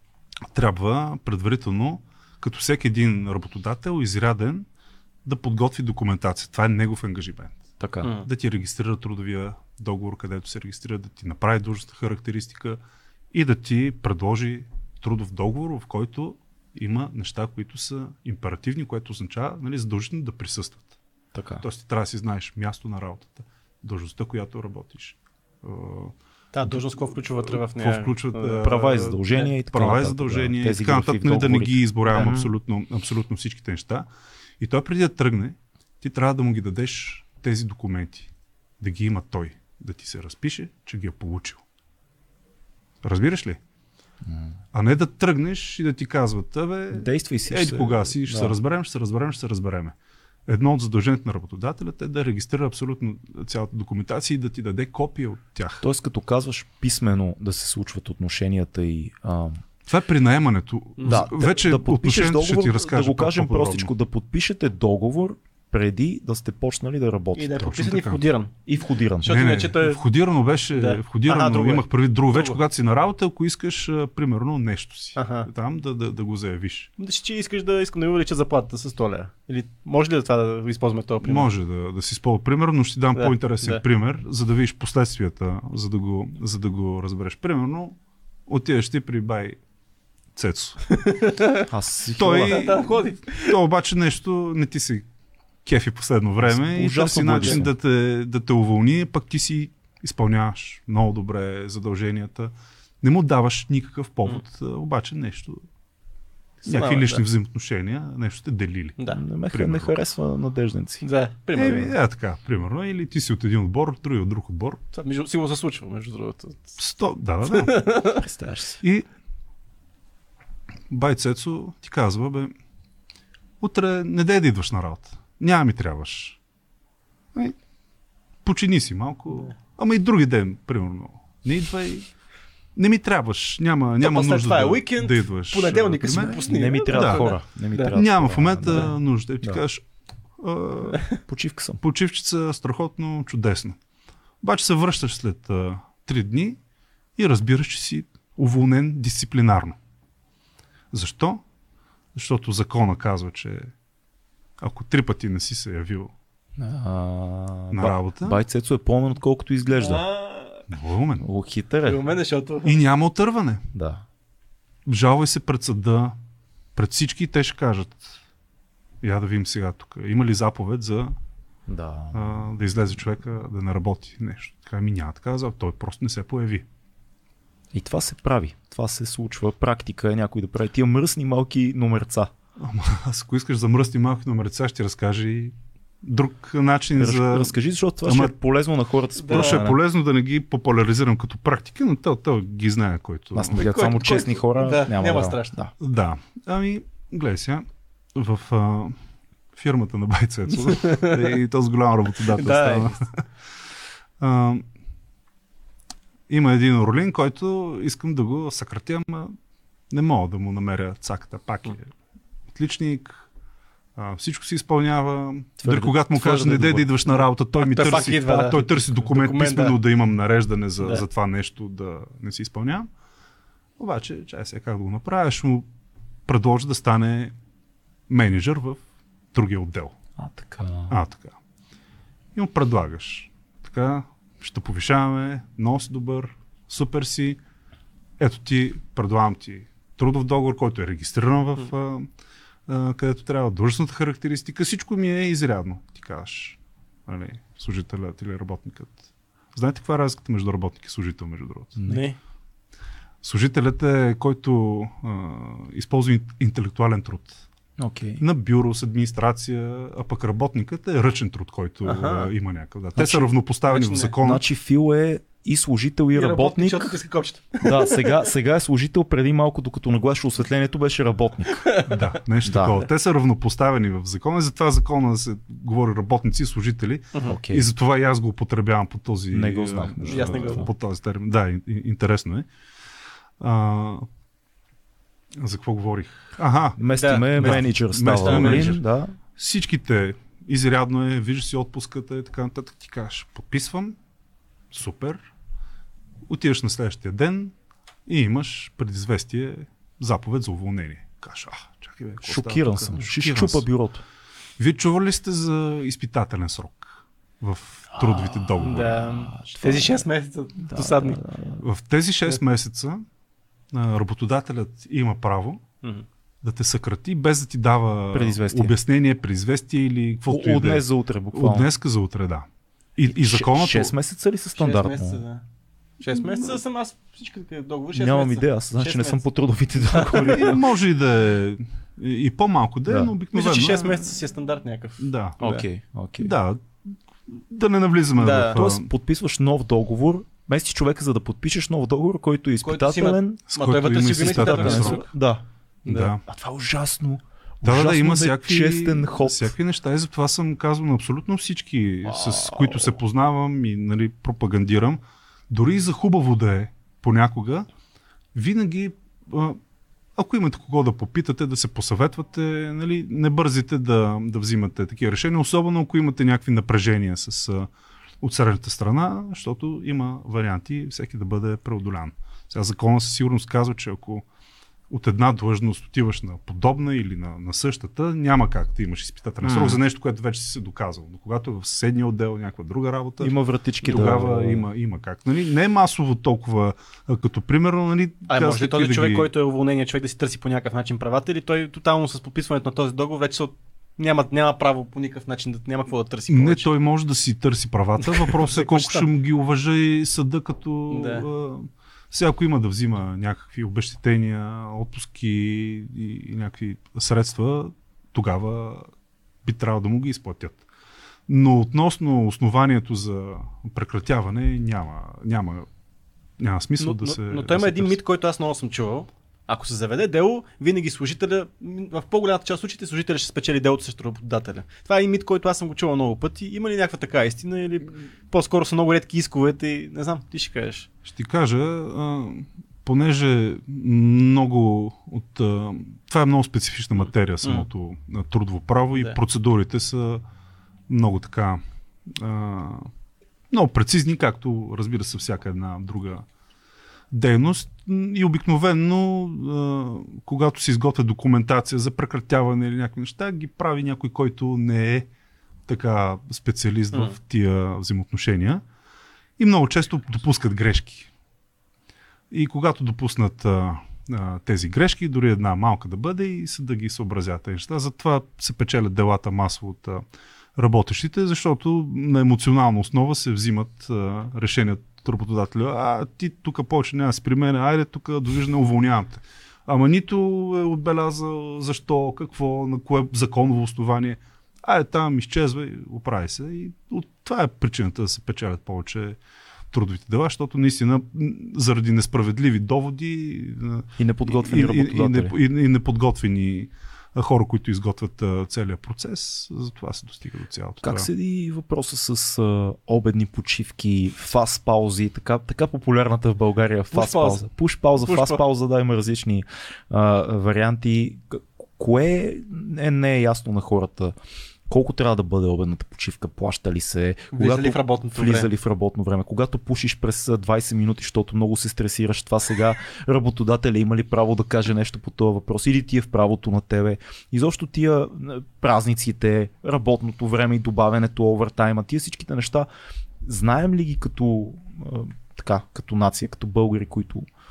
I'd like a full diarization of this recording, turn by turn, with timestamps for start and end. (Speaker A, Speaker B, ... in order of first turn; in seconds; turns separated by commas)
Speaker A: 0.5-4.7, Speaker A: 5.2-7.6, Speaker B: 7.8-8.1, Speaker A: 8.2-12.8, Speaker A: 13.3-20.9, Speaker B: 21.3-21.6, Speaker A: 21.6-26.1, Speaker C: 26.5-29.5, Speaker A: 27.4-34.1, Speaker B: 28.6-32.5, Speaker A: 34.6-41.6, Speaker A: 43.0-43.6, Speaker B: 44.2-44.6, Speaker A: 44.7-50.0, Speaker B: 46.9-48.5, Speaker A: 50.5-55.8, Speaker B: 55.8-59.6, Speaker A: 59.9-63.9, Speaker C: 61.0-61.3, Speaker B: 61.0-67.6, Speaker C: 67.4-68.6, Speaker A: 67.6-68.3, Speaker B: 68.7-69.3, Speaker C: 69.2-70.0, Speaker A: 69.2-76.9, Speaker C: 70.7-72.6, Speaker C: 75.2-75.5, Speaker C: 77.0-81.5, Speaker A: 81.2-89.6, Speaker C: 83.2-83.8, Speaker A: 90.3-90.8, Speaker C: 90.9-91.7, Speaker B: 91.7-92.7, Speaker A: 92.2-95.0, Speaker C: 92.4-93.6, Speaker A: 95.7-105.6, Speaker B: 96.5-97.7, Speaker C: 97.3-97.6, Speaker C: 106.6-107.2, Speaker A: 106.7-109.0, Speaker B: 109.1-111.1, Speaker A: 109.5-110.0, Speaker C: 111.0-111.9, Speaker A: 111.5-114.8, Speaker C: 114.9-116.8, Speaker A: 116.8-117.9, Speaker C: 117.5-118.3, Speaker B: 118.2-118.8, Speaker A: 120.9-122.5, Speaker A: 123.6-126.4, Speaker A: 128.4-132.1, Speaker A: 132.8-137.3, Speaker C: 134.0-137.9, Speaker B: 136.5-139.6, Speaker A: 137.9-139.9, Speaker A: 140.4-141.1, Speaker B: 141.2-141.8, Speaker A: 141.8-143.8, Speaker A: 144.4-146.6, Speaker A: 147.2-149.8, Speaker A: 150.9-151.4, Speaker A: 152.1-153.7, Speaker A: 154.6-156.1, Speaker B: 156.6-160.1, Speaker A: 157.7-158.4, Speaker C: 159.8-160.7, Speaker A: 160.7-161.2, Speaker B: 161.2-162.0, Speaker C: 161.8-162.8, Speaker A: 162.6-163.6, Speaker B: 163.7-164.1, Speaker A: 164.9-166.2, Speaker A: 166.8-168.2, Speaker A: 169.0-171.2, Speaker B: 171.7-172.5, Speaker A: 172.1-176.7, Speaker B: 177.7-182.3, Speaker A: 182.6-188.3, Speaker B: 187.0-189.8, Speaker C: 189.2-189.7, Speaker A: 189.3-193.7, Speaker B: 193.3-195.7, Speaker C: 193.5-195.5, Speaker A: 195.8-199.0, Speaker A: 199.5-203.6, Speaker C: 200.6-201.4, Speaker C: 202.3-202.9, Speaker A: 204.2-204.7, Speaker A: 206.3-209.3, Speaker A: 209.9-211.9, Speaker A: 212.5-213.2, Speaker A: 214.0-222.9, Speaker B: 215.6-217.0, Speaker C: 217.6-219.8, Speaker A: 223.8-225.7, Speaker A: 226.3-227.3, Speaker A: 228.1-228.8, Speaker A: 229.3-229.9, Speaker B: 230.2-231.0, Speaker A: 230.9-231.4, Speaker A: 232.3-237.4, Speaker A: 238.2-242.1, Speaker A: 242.7-249.0, Speaker A: 249.5-251.8, Speaker B: 251.8-252.0, Speaker C: 251.9-252.2, Speaker A: 253.2-257.4, Speaker B: 257.8-258.2, Speaker A: 258.2-264.4, Speaker C: 261.9-262.3, Speaker B: 263.0-263.3, Speaker C: 263.7-264.1, Speaker B: 264.2-267.0, Speaker C: 266.1-268.3, Speaker B: 267.6-271.7, Speaker A: 271.9-282.5, Speaker B: 272.4-272.8, Speaker C: 277.1-277.4, Speaker B: 277.3-277.7, Speaker B: 279.3-280.7, Speaker C: 280.1-280.7, Speaker A: 283.4-284.1, Speaker A: 285.3-288.8, Speaker B: 286.8-289.1, Speaker C: 286.9-288.8, Speaker A: 289.4-294.0, Speaker A: 294.7-295.2, Speaker A: 296.3-297.5, Speaker A: 298.1-303.7, Speaker B: 302.2-304.0, Speaker A: 304.6-309.1, Speaker B: 308.0-310.0, Speaker C: 308.6-311.2, Speaker B: 310.6-311.6, Speaker A: 311.6-313.0, Speaker A: 313.7-315.6, Speaker A: 316.4-323.9, Speaker B: 318.1-318.7, Speaker B: 320.3-321.7, Speaker B: 323.1-325.2, Speaker C: 324.6-325.4, Speaker C: 326.0-329.2, Speaker A: 326.1-326.6, Speaker B: 327.9-330.6, Speaker C: 329.8-330.4, Speaker A: 330.3-334.1, Speaker B: 332.9-333.1, Speaker C: 333.3-335.6, Speaker A: 335.0-335.4, Speaker B: 335.4-336.3, Speaker A: 336.2-338.9, Speaker C: 338.2-338.6, Speaker B: 338.5-343.4, Speaker C: 342.6-345.1, Speaker A: 343.5-345.1, Speaker B: 344.2-345.4, Speaker C: 345.9-346.1, Speaker A: 345.9-346.2, Speaker B: 346.3-349.5, Speaker A: 347.6-357.7, Speaker B: 352.1-352.9, Speaker A: 358.3-359.6, Speaker A: 360.2-367.7, Speaker A: 368.2-374.2, Speaker A: 374.9-389.3, Speaker B: 379.4-379.8, Speaker B: 383.2-384.7, Speaker C: 388.3-396.7, Speaker A: 396.3-408.9, Speaker C: 398.0-399.1, Speaker C: 400.9-401.3, Speaker A: 409.4-410.6, Speaker A: 411.3-415.7, Speaker A: 416.4-418.0, Speaker C: 416.8-430.9, Speaker A: 431.1-440.2, Speaker A: 440.9-442.9, Speaker A: 443.5-446.2, Speaker A: 447.1-455.1, Speaker A: 455.7-458.6, Speaker A: 459.4-461.1, Speaker A: 462.3-489.2, Speaker A: 489.7-501.1, Speaker B: 494.0-495.4, Speaker B: 500.8-514.2, Speaker C: 506.9-507.5, Speaker C: 508.0-508.4, Speaker B: 514.7-532.7, Speaker C: 517.3-518.5, Speaker B: 533.2-537.3